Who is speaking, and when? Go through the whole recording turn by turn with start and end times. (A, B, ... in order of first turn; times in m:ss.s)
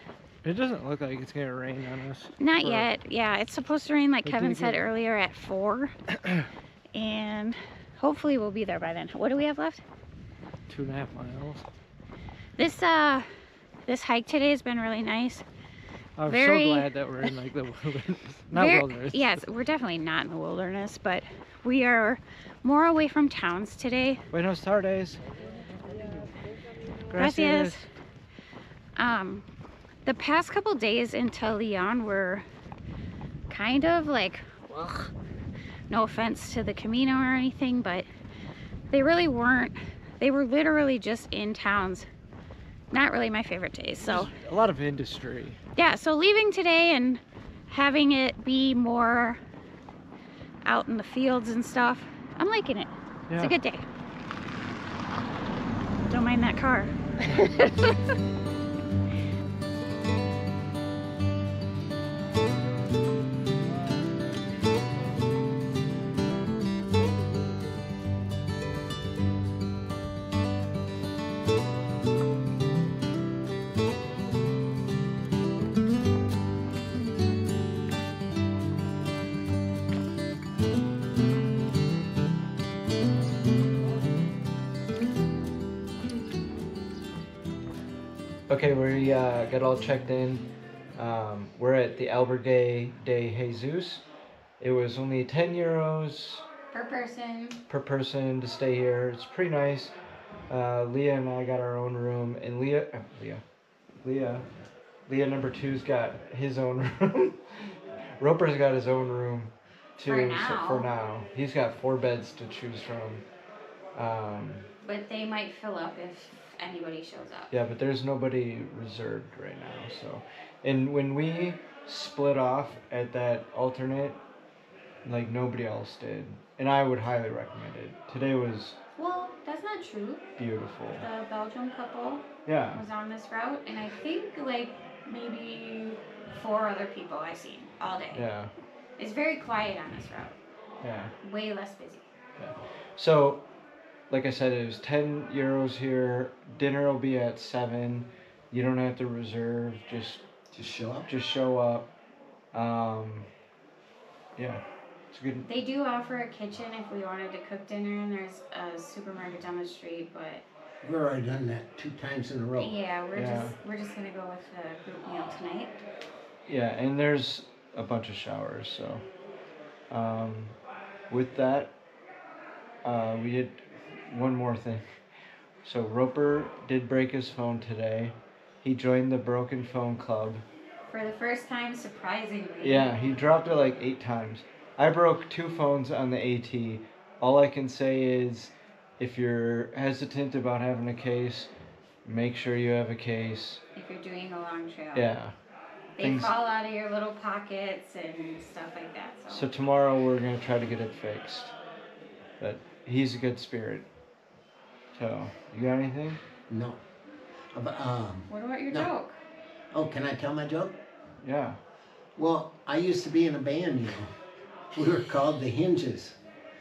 0:00.4-0:02.9 A
0:02.4-0:05.9 B
0:04.2-0:04.9 A
0:06.9-0:09.8 B
0:10.7-0:11.7 A
0:12.6-0:13.3 B
0:13.9-0:15.4 B
0:16.2-0:19.4 A
0:16.2-0:16.9 B
0:18.5-0:24.2 B
0:24.3-0:25.2 A
0:27.1-0:27.8 A
0:27.1-0:27.9 B
0:29.0-0:29.5 B
0:30.0-0:32.4 B
0:33.5-0:35.1 B
0:35.9-0:38.1 B
0:38.9-0:42.1 B
0:42.9-0:44.3 B
0:44.0-0:45.6 A
0:45.8-0:49.4 B
0:50.6-0:53.8 B
0:53.3-0:53.6 A
0:56.1-0:58.1 B
1:28.5-1:34.0 A
1:34.6-1:36.4 A
1:36.7-1:37.6 B
1:37.7-1:39.9 A
1:40.5-1:43.4 A
1:44.0-1:44.5 A
1:45.1-1:47.4 A
1:48.2-1:53.2 A
1:50.1-1:50.9 B
1:54.0-1:54.7 A
1:54.8-1:57.5 B
1:57.5-2:04.2 A
2:05.0-2:08.8 A
2:09.0-2:10.3 B
2:10.4-2:11.1 A
2:11.0-2:18.2 B
2:12.5-2:12.8 A
2:18.1-2:18.5 A
2:19.0-2:20.4 B
2:20.8-2:21.1 A
2:21.2-2:22.1 B
2:22.4-2:23.4 A
2:24.1-2:30.3 A
2:30.5-2:31.1 C
2:31.0-2:31.9 A
2:32.5-2:33.3 A
2:34.4-2:35.5 A
2:35.4-2:40.4 B
2:40.8-2:42.8 C
2:42.6-2:45.8 B
2:43.1-2:43.6 A
2:46.5-2:49.0 A
2:49.9-2:50.6 A
2:51.1-2:51.7 A
2:52.8-2:54.8 A
2:55.6-3:00.4 A
3:00.9-3:02.9 B
3:02.6-3:11.5 A
3:12.0-3:13.6 A
3:13.8-3:15.1 B
3:14.9-3:15.3 A
3:16.0-3:19.5 B
3:16.0-3:16.3 A
3:19.3-3:21.6 A
3:22.4-3:23.9 A
3:24.9-3:26.2 A
3:26.5-3:26.8 C
3:27.5-3:28.9 C
3:28.3-3:29.2 B
3:29.7-3:30.8 C
3:31.2-3:31.6 A
3:32.2-3:34.1 C
3:34.7-3:36.2 C